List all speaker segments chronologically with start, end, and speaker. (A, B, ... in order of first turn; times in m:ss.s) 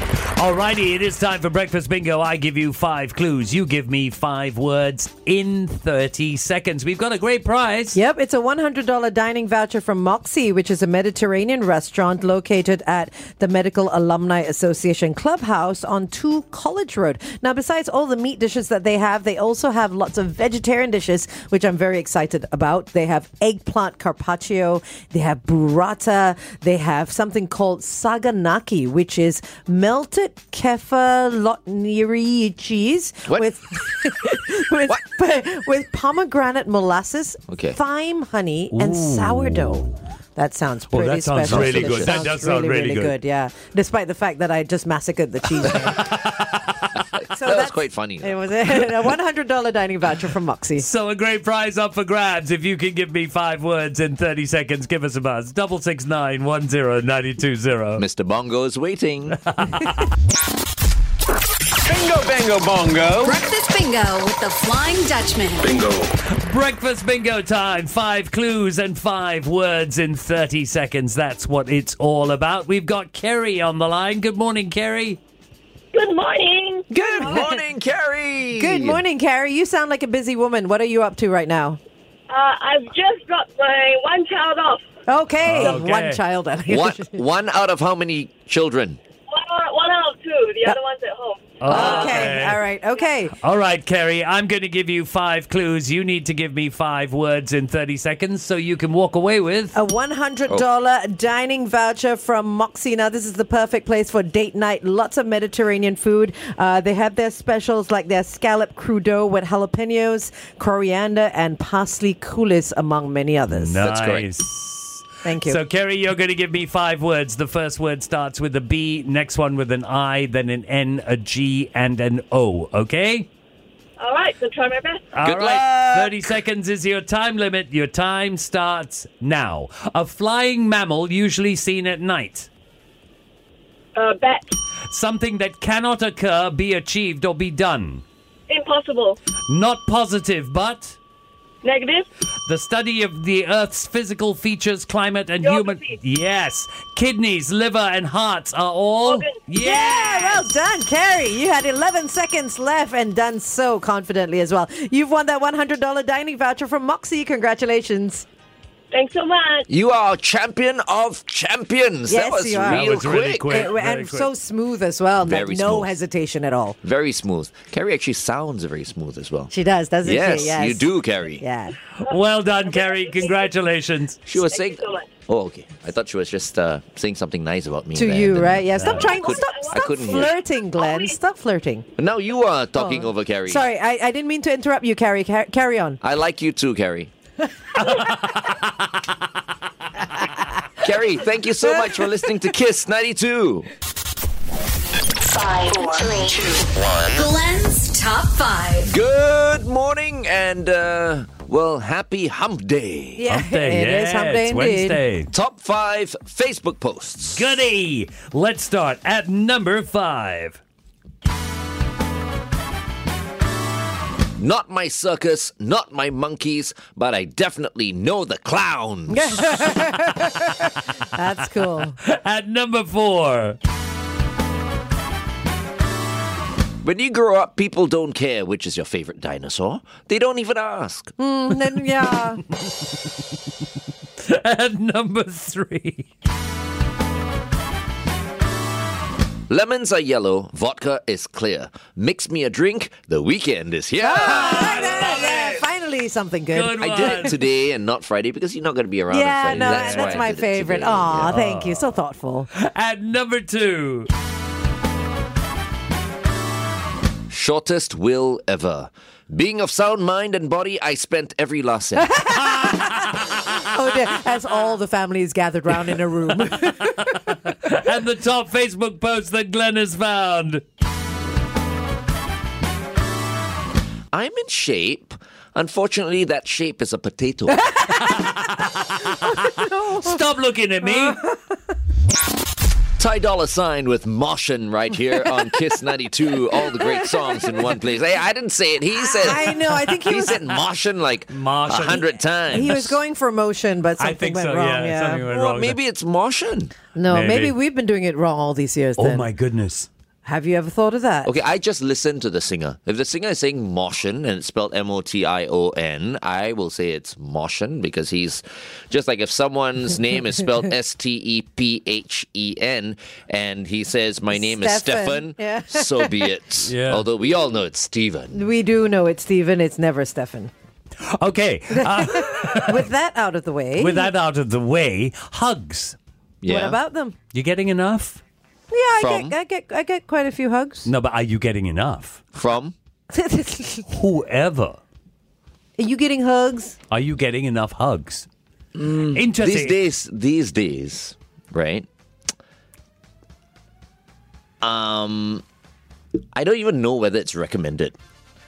0:00.4-0:08.0 A
0:07.9-0:46.1 B
0:33.3-0:33.5 C
0:37.5-0:37.8 C
0:38.7-0:40.0 A
0:40.9-0:43.2 A
0:41.4-0:42.2 C
0:45.6-0:46.9 A
0:47.1-0:48.9 C
0:47.3-0:50.9 B
0:50.8-0:58.0 A
0:58.0-0:59.4 C
0:59.5-1:00.1 A
1:01.8-1:03.4 D
1:03.2-1:05.7 E
1:05.6-1:06.1 D
1:06.3-1:15.2 A
1:15.9-1:16.8 F
1:16.9-1:19.0 C
1:16.9-1:17.6 B
1:18.6-1:21.8 B
1:22.3-1:24.8 F
1:25.1-1:27.2 B
1:25.4-1:26.2 A
1:26.7-1:29.0 C
1:29.3-1:31.4 F
1:31.6-1:32.6 A
1:31.7-1:33.3 B
1:33.4-1:39.8 A
1:39.7-1:53.8 B
1:53.5-2:03.3 A
1:53.8-1:54.3 C
1:55.2-1:55.6 B
2:04.0-2:05.0 F
2:05.1-2:12.5 A
2:05.2-2:06.4 C
2:14.0-2:14.5 F
2:14.9-2:18.0 A
2:18.5-2:19.2 F
2:19.5-2:21.0 A
2:21.6-2:22.1 F
2:22.5-2:30.6 A
2:25.4-2:25.9 F
2:29.6-2:38.3 B
2:38.9-2:39.7 F
2:39.7-2:43.7 C
2:42.1-2:46.8 B
2:42.7-2:44.3 A
2:45.2-2:46.0 C
2:46.8-2:49.5 C
2:49.5-2:51.8 B
2:50.0-2:51.4 C
2:52.0-2:54.2 A
2:52.8-2:53.4 F
2:54.3-3:00.4 C
2:54.5-2:55.0 F
2:58.0-3:01.9 B
2:58.8-2:59.0 A
2:59.3-2:59.7 F
3:00.8-3:01.1 F
3:02.0-3:03.6 C
3:02.8-3:06.0 B
3:06.0-3:07.1 C
3:07.8-3:08.9 A
3:10.8-3:13.7 C
3:17.1-3:18.9 E
3:18.8-3:23.2 C
3:23.2-3:25.0 B
3:23.3-3:25.3 A
3:25.3-3:27.5 C
3:27.3-3:30.6 A
3:34.4-3:39.6 C
3:39.1-3:42.0 B
3:41.8-3:43.6 A
3:46.8-3:51.1 C
3:51.2-3:52.4 B
3:54.2-3:56.1 A
3:59.5-4:05.6 C
4:04.0-4:07.3 B
4:04.2-4:05.6 A
4:06.5-4:07.4 A
4:06.8-4:11.3 C
4:09.1-4:12.5 B
4:09.5-4:10.2 A
4:11.2-4:11.9 A
4:12.5-4:14.1 A
4:17.3-4:22.2 C
4:22.0-4:27.4 B
4:22.4-4:23.3 A
4:26.4-4:30.6 A
4:34.1-4:37.7 C
4:37.6-4:38.2 B
4:38.0-4:41.2 A
4:39.2-4:40.2 B
4:40.8-4:41.3 B
4:43.0-4:53.0 C
4:46.7-4:47.5 B
4:49.0-4:50.5 B
4:51.3-4:52.7 A
4:52.5-4:55.2 B
4:54.0-4:55.8 A
4:55.3-4:56.7 C
4:57.0-4:59.3 B
4:57.1-4:57.5 A
4:59.0-4:59.9 A
5:00.2-5:01.4 B
5:01.2-5:18.4 C
5:14.3-5:16.3 B
5:16.7-5:17.1 A
5:18.3-5:20.5 B
5:21.0-5:22.9 A
5:21.7-5:24.1 B
5:23.8-5:26.0 A
5:26.4-5:26.8 C
5:26.5-5:27.2 B
5:27.3-5:28.2 A
5:28.7-5:30.9 B
5:29.0-5:29.3 C
5:30.9-5:32.3 A
5:32.3-5:32.8 C
5:33.1-5:33.9 B
5:33.9-5:34.8 A
5:35.8-5:36.8 B
5:36.9-5:38.3 A
5:38.8-5:41.9 C
5:39.1-5:39.8 A
5:44.6-5:45.4 C
5:46.3-5:48.0 C